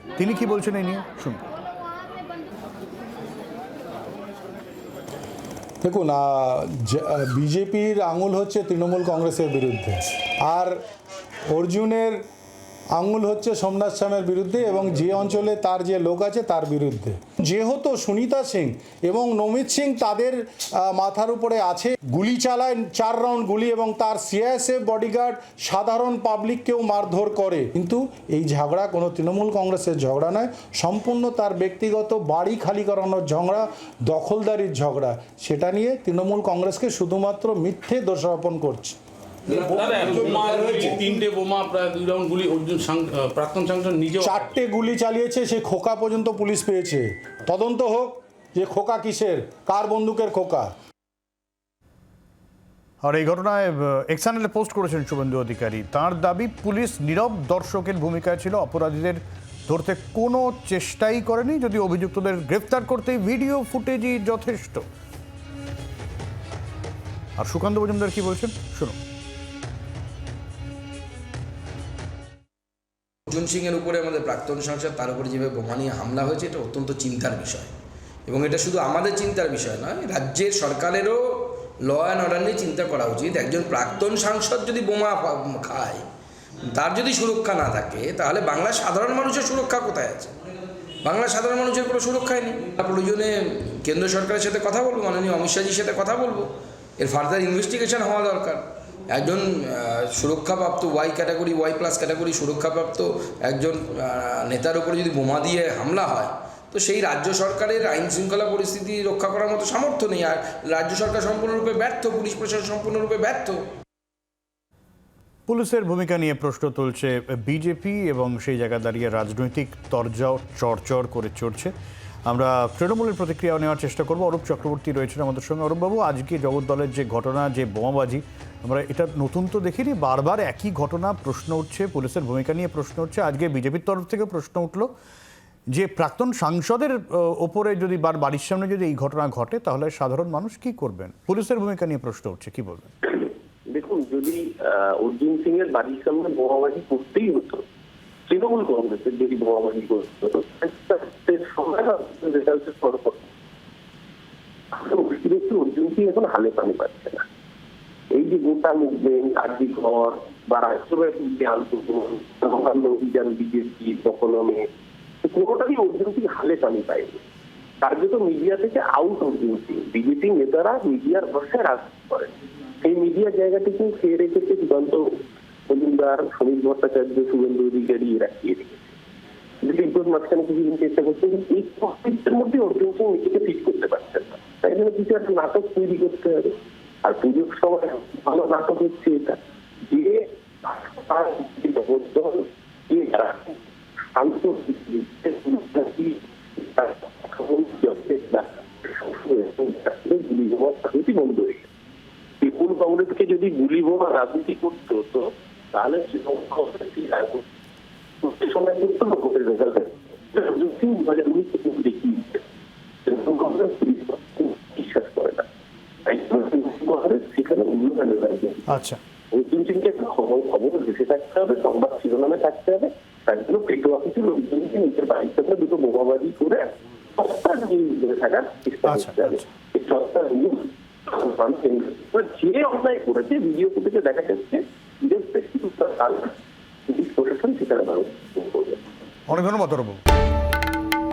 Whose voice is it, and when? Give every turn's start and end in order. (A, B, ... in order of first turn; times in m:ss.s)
0:00.2-0:01.5 A
0:05.8-0:10.8 B
0:11.5-0:12.2 B
0:13.0-0:39.0 B
0:39.5-0:44.5 C
0:39.5-0:41.1 B
0:44.2-0:50.7 B
0:53.0-1:04.8 A
1:07.4-1:09.0 A
1:13.3-1:17.7 D
1:18.3-1:26.0 D
1:26.7-1:30.3 D
1:31.0-1:53.6 D
1:55.5-2:01.7 A
2:02.3-2:14.9 A
2:15.7-2:23.0 A
2:23.7-2:27.6 E
2:28.3-2:33.3 E
2:34.7-2:37.2 E
2:38.1-2:44.6 E
2:45.2-2:47.2 E
2:47.8-2:55.1 E
2:55.7-2:58.9 E
2:59.6-3:13.6 E
3:14.1-3:21.7 E
3:22.4-3:27.4 E
3:28.2-3:32.4 E
3:33.0-3:35.4 E
3:36.0-3:38.8 E
3:38.7-3:39.0 A
3:39.3-3:56.3 E
3:48.9-3:49.4 A
3:56.9-3:58.8 E
3:59.3-4:00.0 A